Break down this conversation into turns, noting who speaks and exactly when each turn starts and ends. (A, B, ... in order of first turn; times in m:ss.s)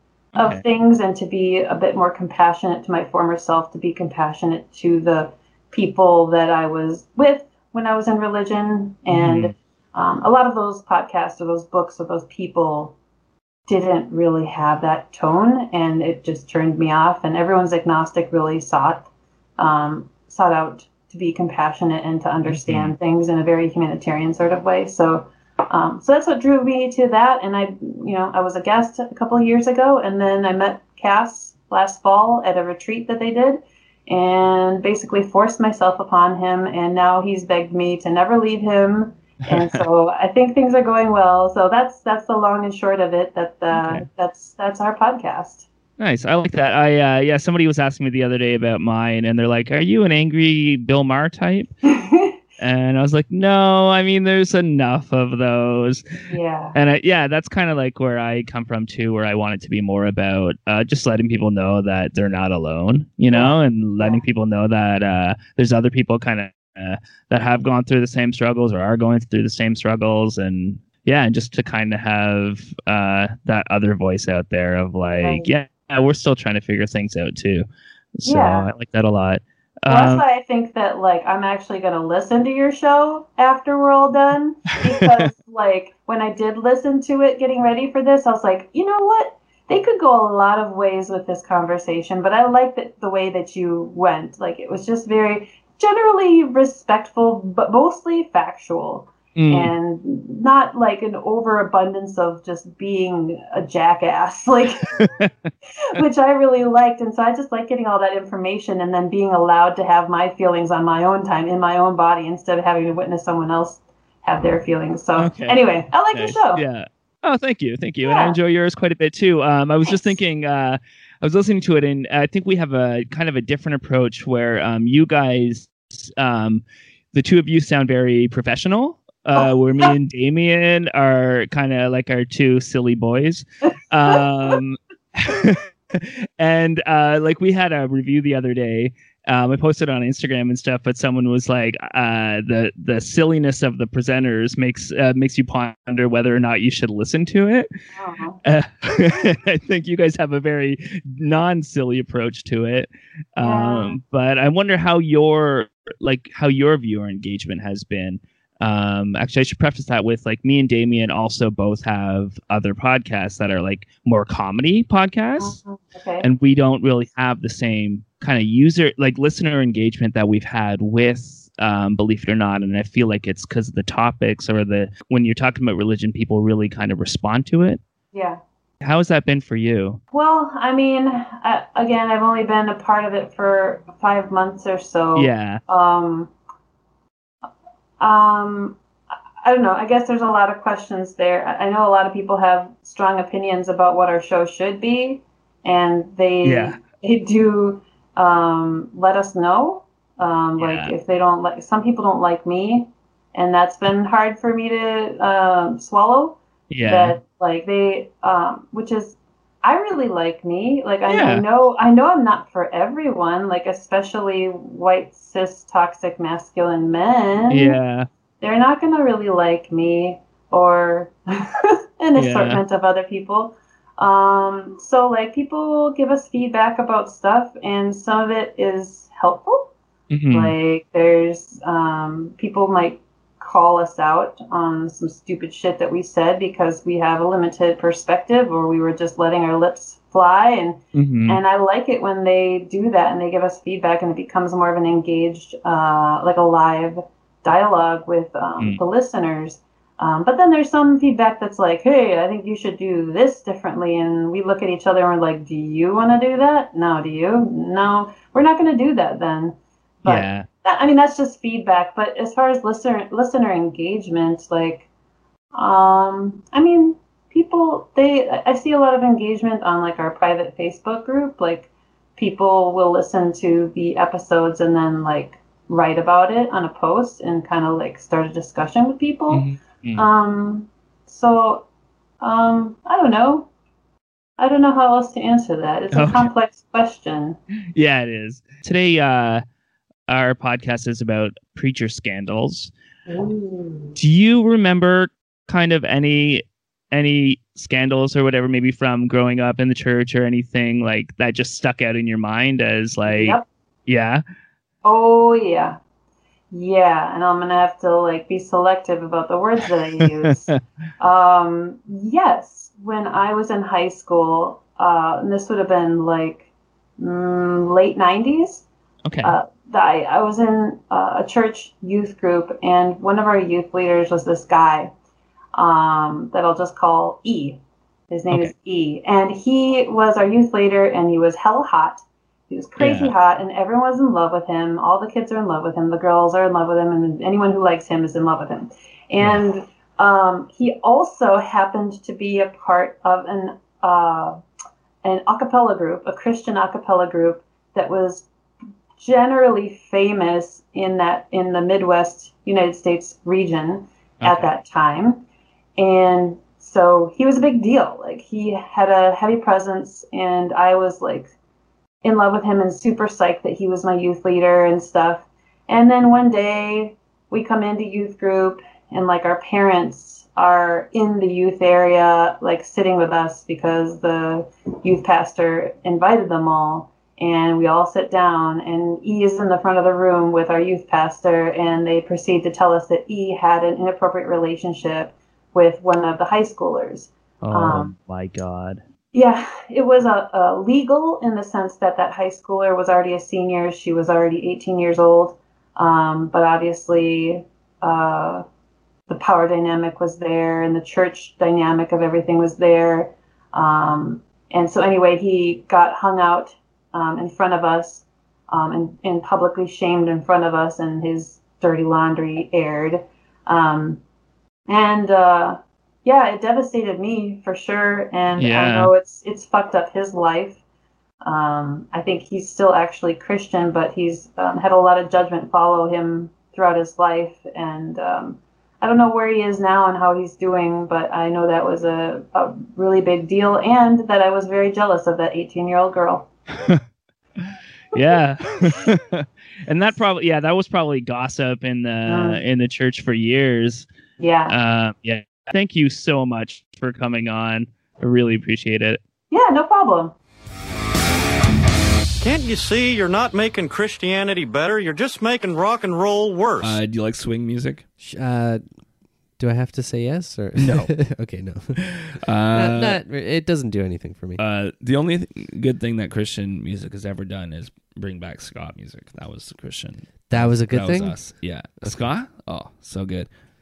0:00.3-0:00.6 A
0:00.4-0:12.9 B
0:09.1-0:09.5 A
0:13.7-0:45.7 B
0:22.5-0:22.9 A
0:43.7-0:44.0 A
0:46.0-0:51.7 A
0:51.8-0:52.4 B
0:52.6-0:56.2 A
0:56.3-0:56.8 B
0:56.7-1:20.2 A
1:03.3-1:04.2 B
1:15.2-1:15.5 B
1:18.2-1:18.7 B
1:19.9-1:44.9 B
1:24.7-1:25.3 A
1:39.4-1:39.7 A
1:45.0-1:45.3 A
1:45.9-1:56.6 B
1:55.2-2:27.7 A
1:58.0-1:58.4 B
2:13.7-2:14.2 B
2:27.9-2:28.4 B
2:28.4-2:45.6 A
2:33.4-2:34.0 B
2:45.4-2:46.3 B
2:46.2-2:57.8 A
2:58.1-2:58.4 B
2:58.8-3:00.0 A
3:00.1-3:06.3 B
3:05.2-3:05.6 A
3:08.0-3:08.8 B
3:09.4-3:37.8 B
3:16.4-3:16.8 A
3:20.6-3:20.9 A
3:26.7-3:27.2 A
3:31.1-3:31.4 A
3:37.5-3:38.1 A
3:38.4-3:49.7 B
3:42.2-3:42.6 A
3:50.1-3:50.5 A
3:50.3-4:24.9 B
4:00.9-4:01.4 A
4:20.0-4:20.5 A
4:25.5-4:41.7 B
4:39.3-4:40.1 A
4:42.2-4:43.5 B
4:44.4-4:47.4 B
4:45.9-4:46.3 A
4:47.7-4:49.4 A
4:50.1-4:52.7 A
4:53.1-4:53.9 B
4:54.0-5:04.2 A
5:03.1-5:03.5 B
5:04.8-5:05.8 B
5:06.5-5:10.5 B
5:10.3-5:10.6 A
5:11.0-5:18.6 B
5:19.0-5:19.3 A
5:19.2-5:24.9 B
5:25.5-5:44.4 B
5:32.8-5:33.1 A
5:45.0-5:48.2 B
5:49.0-5:55.2 B
5:54.2-5:54.5 A
5:55.8-6:01.3 B
6:02.0-6:28.0 B
6:27.4-6:28.8 A
6:29.1-6:38.4 B
6:39.1-6:54.0 B
6:54.7-7:00.6 B
6:58.4-6:58.9 A
7:01.2-7:16.3 B
7:16.5-7:16.8 A
7:17.4-7:23.9 A
7:22.1-7:22.4 B
7:24.2-7:24.6 B
7:24.5-7:29.0 A
7:29.3-7:30.1 B
7:32.2-7:36.8 C
7:36.6-7:37.8 D
7:38.0-7:38.6 E
7:39.4-7:44.4 E
7:40.6-7:40.9 D
7:42.2-7:43.0 D
7:44.4-7:53.3 D
7:50.3-7:52.1 E